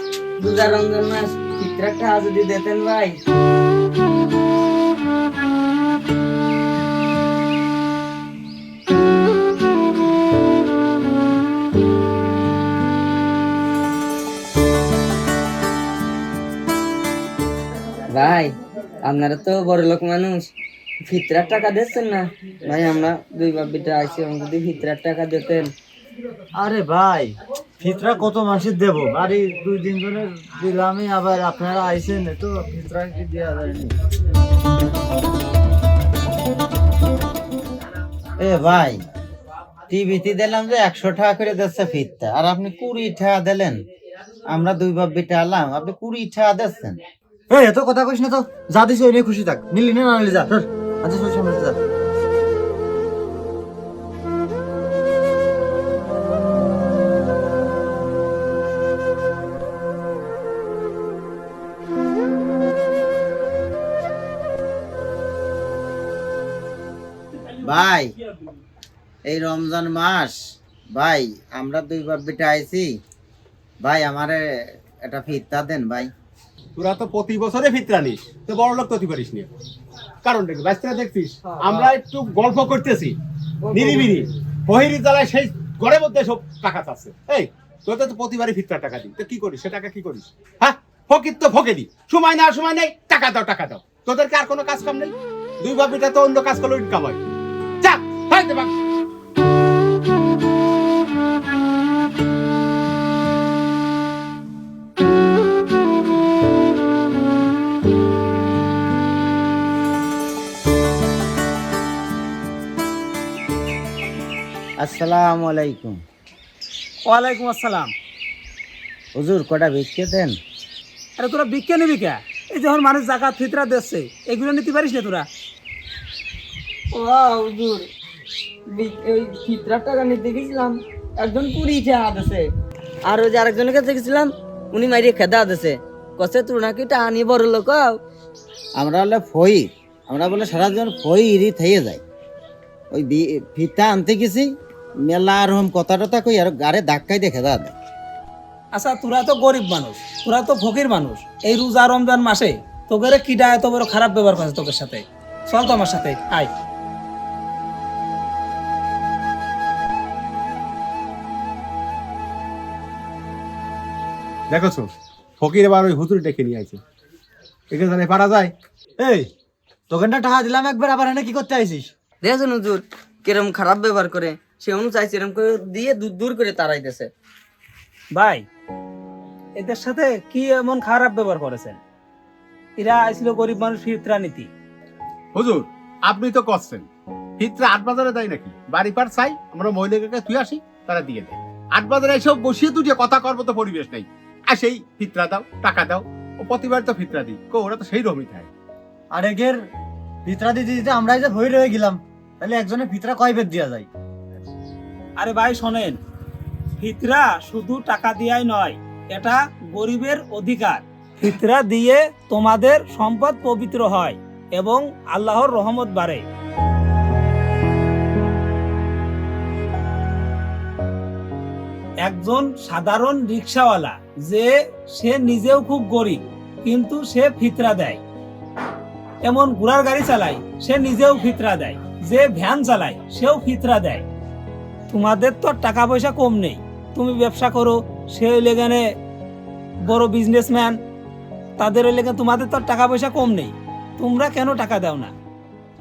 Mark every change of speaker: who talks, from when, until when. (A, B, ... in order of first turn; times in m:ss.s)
0:00.4-0:03.2 A
0:18.1-0:25.7 A
0:26.6-0:34.0 B
0:38.4-0:39.0 C
0:39.9-0:43.8 C
0:44.5-0:47.0 C
0:47.5-0:51.8 B
1:07.6-1:08.2 C
1:09.2-1:10.4 C
1:10.9-1:13.0 C
1:13.8-1:14.5 C
1:15.0-1:16.1 C
1:16.8-1:19.5 D
1:20.2-1:23.2 D
1:21.6-1:21.9 A
1:23.7-1:24.2 A
1:23.7-1:37.2 D
1:37.8-1:38.7 D
1:54.8-1:56.0 C
1:57.1-1:57.9 E
1:59.2-2:00.4 C
2:01.2-2:05.3 E
2:06.9-2:07.9 A
2:08.7-2:12.5 A
2:13.0-2:18.0 A
2:18.8-2:22.0 C
2:22.9-2:24.5 C
2:25.1-2:27.7 C
2:28.7-2:36.5 E
2:44.5-2:46.8 D
2:47.7-2:48.5 D
2:49.0-2:49.3 B
2:49.9-2:51.9 B
2:52.2-2:57.1 A
2:58.1-2:58.4 E
2:59.6-3:01.8 E
3:02.8-3:04.5 E
3:05.3-3:06.9 D
3:07.4-3:18.5 D
3:19.1-3:19.6 B
3:20.2-3:23.9 B
3:25.2-3:26.0 E
3:26.8-3:36.3 E
3:42.0-3:48.0 E
3:49.2-3:54.0 E
3:54.9-3:58.8 E
3:59.9-4:00.8 E
4:01.6-4:05.1 E